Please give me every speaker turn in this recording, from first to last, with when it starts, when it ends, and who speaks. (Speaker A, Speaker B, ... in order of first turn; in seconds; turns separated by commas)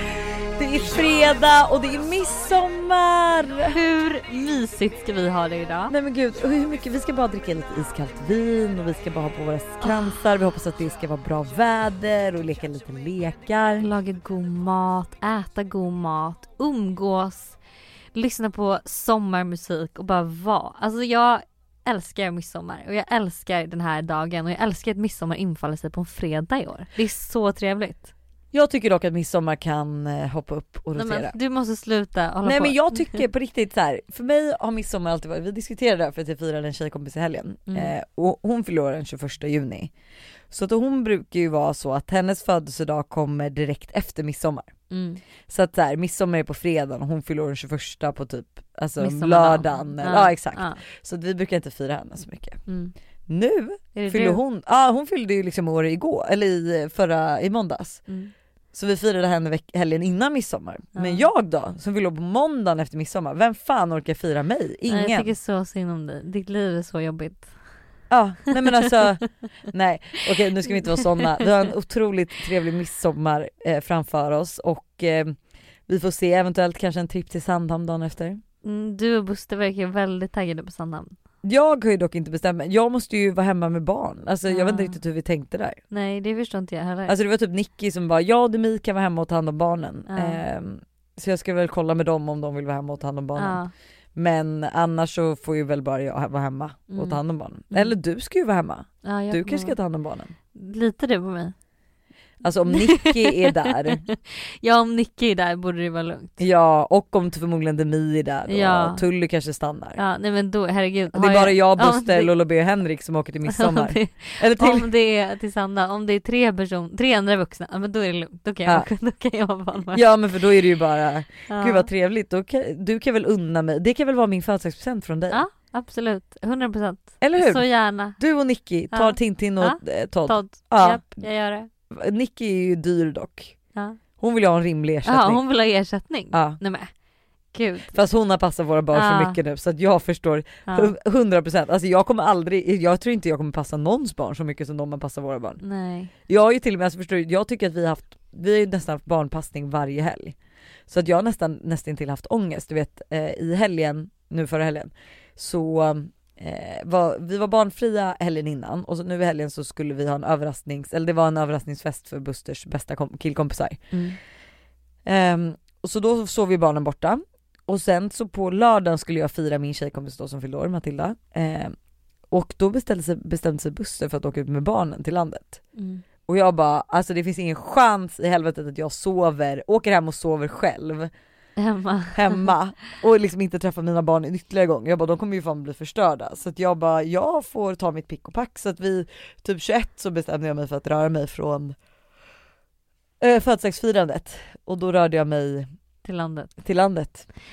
Speaker A: 0.6-3.8, Speaker B: 3.7-5.9, Speaker A: 5.9-13.9, Speaker B: 13.8-17.6, Speaker B: 18.1-28.1, Speaker A: 28.5-31.4, Speaker B: 31.0-33.3, Speaker A: 32.4-39.9, Speaker A: 40.5-44.7, Speaker B: 44.9-45.2, Speaker A: 45.5-52.6, Speaker B: 49.0-50.8, Speaker B: 52.7-52.9, Speaker A: 53.3-58.0, Speaker B: 53.9-54.4, Speaker B: 58.1-58.3, Speaker A: 58.7-65.3, Speaker B: 61.0-61.3, Speaker B: 64.9-67.8, Speaker A: 68.1-78.4, Speaker B: 78.6-81.2, Speaker A: 81.4-85.8, Speaker B: 84.5-85.0, Speaker B: 85.9-87.2, Speaker A: 87.1-93.6, Speaker B: 90.1-90.4, Speaker B: 93.3-93.7, Speaker A: 94.2-100.3, Speaker B: 96.9-98.0, Speaker B: 99.0-99.8, Speaker B: 100.5-101.5, Speaker A: 102.4-104.0, Speaker B: 102.7-106.4, Speaker A: 106.4-110.0, Speaker B: 108.5-109.1, Speaker B: 110.0-112.3, Speaker A: 111.1-114.9, Speaker B: 113.5-120.1, Speaker A: 119.9-125.4, Speaker B: 121.5-121.9, Speaker B: 125.3-128.2, Speaker A: 127.2-131.3, Speaker B: 128.9-131.7, Speaker A: 131.9-133.6, Speaker B: 133.7-134.0, Speaker A: 134.2-135.4, Speaker B: 135.1-136.9, Speaker A: 136.3-136.6, Speaker B: 137.5-138.0, Speaker A: 137.9-145.6, Speaker B: 138.9-139.4, Speaker B: 140.7-140.9, Speaker B: 145.6-146.1, Speaker A: 146.3-150.4, Speaker A: 150.9-164.1, Speaker A: 165.1-171.7, Speaker A: 172.3-175.6, Speaker B: 175.8-176.0, Speaker A: 176.3-181.1, Speaker B: 181.6-182.5, Speaker A: 182.2-191.7, Speaker A: 193.2-195.7, Speaker B: 196.0-196.5, Speaker A: 196.6-197.2